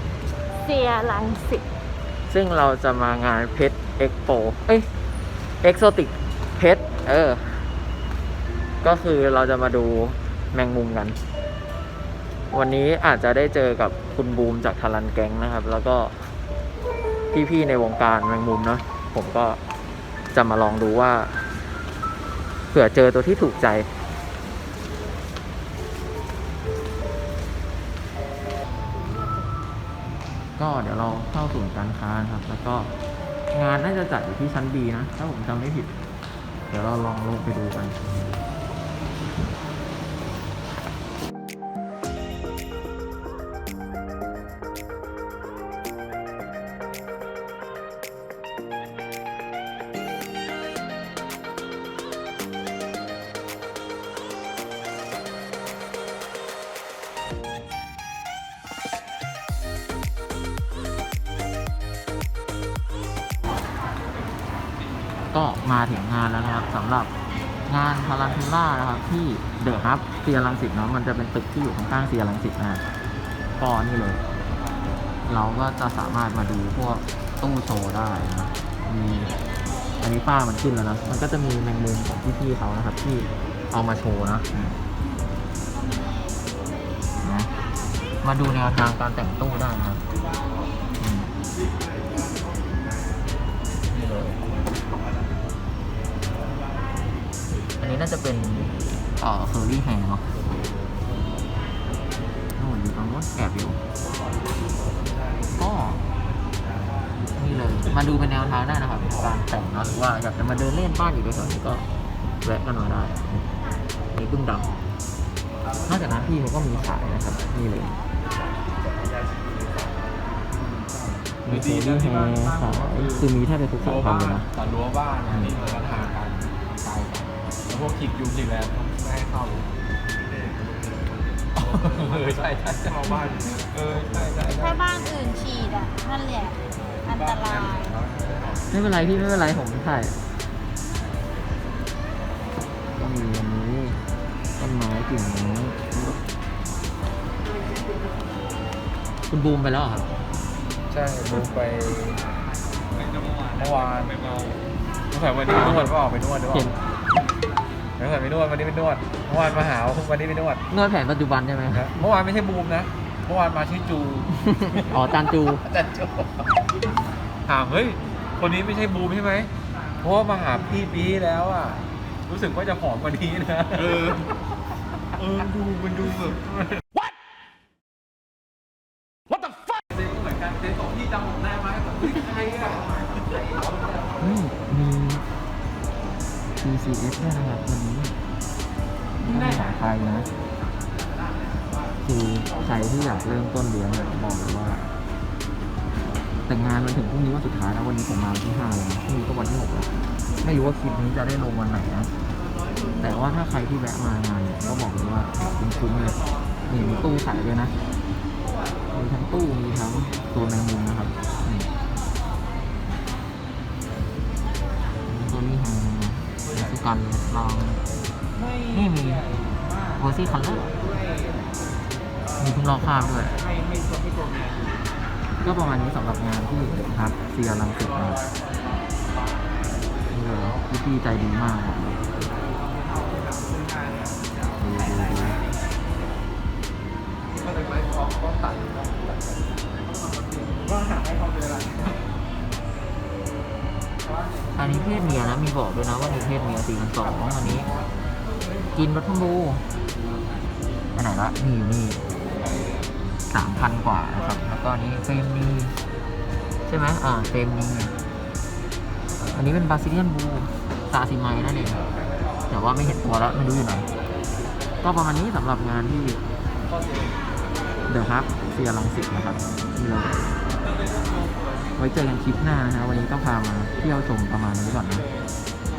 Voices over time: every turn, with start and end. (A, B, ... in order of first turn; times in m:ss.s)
0:00.6-0:01.6 A
0:02.3-0:04.9 B
0:05.6-0:07.6 B
0:08.8-0:11.2 B
0:12.5-0:16.2 B
0:17.3-0:19.6 B
0:20.3-0:21.5 B
0:22.7-0:23.9 B
0:30.6-0:32.9 B
0:33.5-0:35.9 B
0:36.7-0:38.0 B
1:05.3-1:07.1 B
1:07.7-1:12.8 B
1:13.6-1:14.2 B
1:15.2-1:19.3 B
1:20.0-1:24.7 B
1:27.2-1:27.5 B
1:28.2-1:30.0 B
1:31.0-1:31.3 B
1:33.9-1:34.4 B
1:37.8-1:40.3 B
1:42.6-1:43.8 B
1:45.6-1:46.0 B
1:47.4-1:51.9 B
1:52.4-1:53.5 B
1:54.1-1:54.7 B
1:55.9-1:58.0 B
2:01.3-2:03.3 C
2:01.5-2:04.5 B
2:03.8-2:09.7 C
2:05.3-2:05.6 B
2:11.6-2:14.8 C
2:14.5-2:18.0 A
2:18.0-2:18.5 C
2:18.7-2:20.2 B
2:23.0-2:24.0 B
2:24.6-2:26.2 B
2:29.3-2:30.1 B
2:30.9-2:32.2 C
2:33.5-2:34.4 C
2:35.1-2:36.8 C
2:36.5-2:36.8 B
2:38.0-2:40.6 C
2:40.7-2:42.0 B
2:41.7-2:45.0 C
2:44.4-2:45.6 B
2:45.7-2:46.3 C
2:47.5-2:49.5 C
2:50.0-2:54.2 C
2:55.2-2:56.4 C
3:02.3-3:02.7 C
3:04.2-3:05.2 B
3:06.6-3:08.1 B
3:09.2-3:10.3 B
3:12.0-3:14.9 B
3:16.5-3:19.9 B
3:20.4-3:22.1 B
3:23.0-3:27.8 B
3:28.9-3:31.7 B
3:35.0-3:37.8 B
3:38.7-3:39.3 B
3:40.0-3:40.7 B
3:42.4-3:43.4 B
3:45.4-3:48.2 B
3:50.1-3:52.0 B
3:54.6-3:55.4 B
4:04.6-4:07.7 B
4:08.7-4:09.6 B
4:10.9-4:12.0 B
4:13.3-4:15.8 B
4:16.7-4:18.0 B
4:19.3-4:21.8 B
4:22.5-4:23.9 B
4:24.8-4:26.2 B
4:27.9-4:30.3 B
4:31.8-4:35.1 B